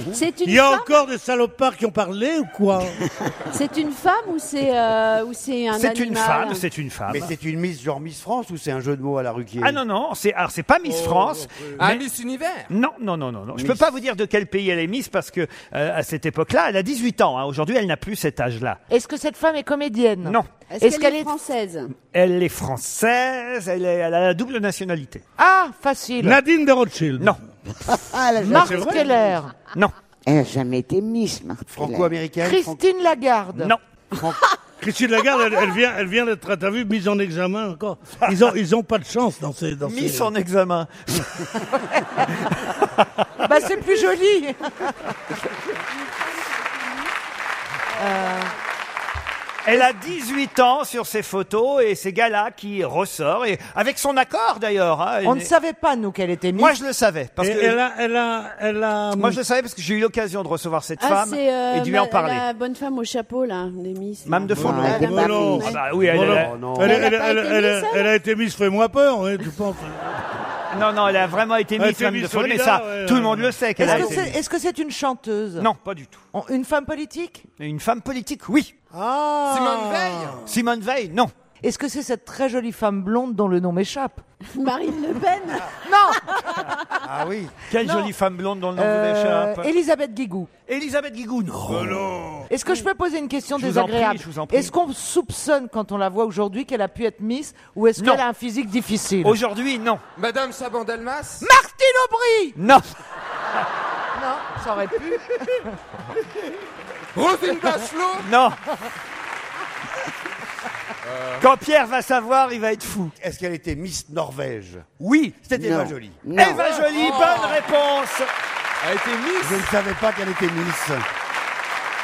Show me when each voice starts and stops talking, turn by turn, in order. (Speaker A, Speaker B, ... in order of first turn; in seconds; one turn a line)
Speaker A: 0.1-1.1
Speaker B: 0.4-3.0
Speaker A: 3.5-6.7
Speaker C: 5.7-7.3
Speaker D: 7.1-9.8
Speaker C: 9.6-12.0
Speaker B: 10.8-11.8
Speaker E: 11.8-12.7
Speaker C: 12.7-18.8
Speaker F: 18.9-21.3
Speaker C: 20.2-20.5
Speaker A: 20.7-21.9
Speaker C: 22.1-25.2
Speaker F: 25.4-26.4
Speaker B: 26.2-27.4
Speaker G: 27.9-29.3
Speaker B: 28.4-29.2
Speaker F: 28.4-29.5
Speaker G: 30.3-32.1
Speaker D: 31.7-32.8
Speaker F: 32.4-33.7
Speaker D: 34.1-34.4
Speaker B: 34.8-40.3
Speaker C: 39.9-41.7
Speaker C: 42.4-43.4
Speaker F: 43.4-45.0
Speaker A: 46.0-47.1
Speaker F: 48.0-48.5
Speaker C: 49.6-55.5
Speaker F: 55.2-56.8
Speaker C: 56.5-57.8
Speaker B: 57.4-59.4
Speaker C: 59.1-62.5
Speaker A: 61.0-66.0
Speaker C: 64.3-66.5
Speaker B: 64.5-70.2
Speaker G: 64.6-65.7
Speaker D: 66.2-67.1
Speaker A: 66.8-68.2
Speaker C: 70.7-74.3
Speaker B: 71.8-74.2
Speaker F: 73.8-75.7
Speaker C: 75.6-76.2
Speaker F: 76.3-77.5
Speaker C: 77.6-78.7
Speaker B: 78.9-80.5
Speaker E: 79.5-80.4
Speaker C: 80.5-81.3
Speaker F: 81.6-84.2
Speaker A: 84.5-87.0
Speaker F: 85.8-86.2
Speaker D: 87.0-87.6
Speaker C: 87.7-89.7
Speaker F: 88.8-90.5
Speaker C: 90.7-92.2
Speaker B: 91.7-92.5
Speaker F: 92.5-99.4
Speaker C: 93.5-94.7
Speaker C: 98.0-98.2
Speaker C: 99.2-100.0
Speaker E: 100.2-101.5
Speaker F: 101.4-102.6
Speaker C: 102.6-102.9
Speaker F: 104.2-105.7
Speaker E: 107.2-108.3
Speaker C: 108.2-108.6
Speaker E: 111.0-111.5
Speaker C: 111.4-113.2
Speaker D: 113.2-114.9
Speaker C: 115.0-115.4
Speaker D: 115.4-116.2
Speaker G: 115.5-116.9
Speaker C: 116.4-118.3
Speaker E: 116.9-117.6
Speaker E: 118.8-119.7
Speaker D: 119.4-121.0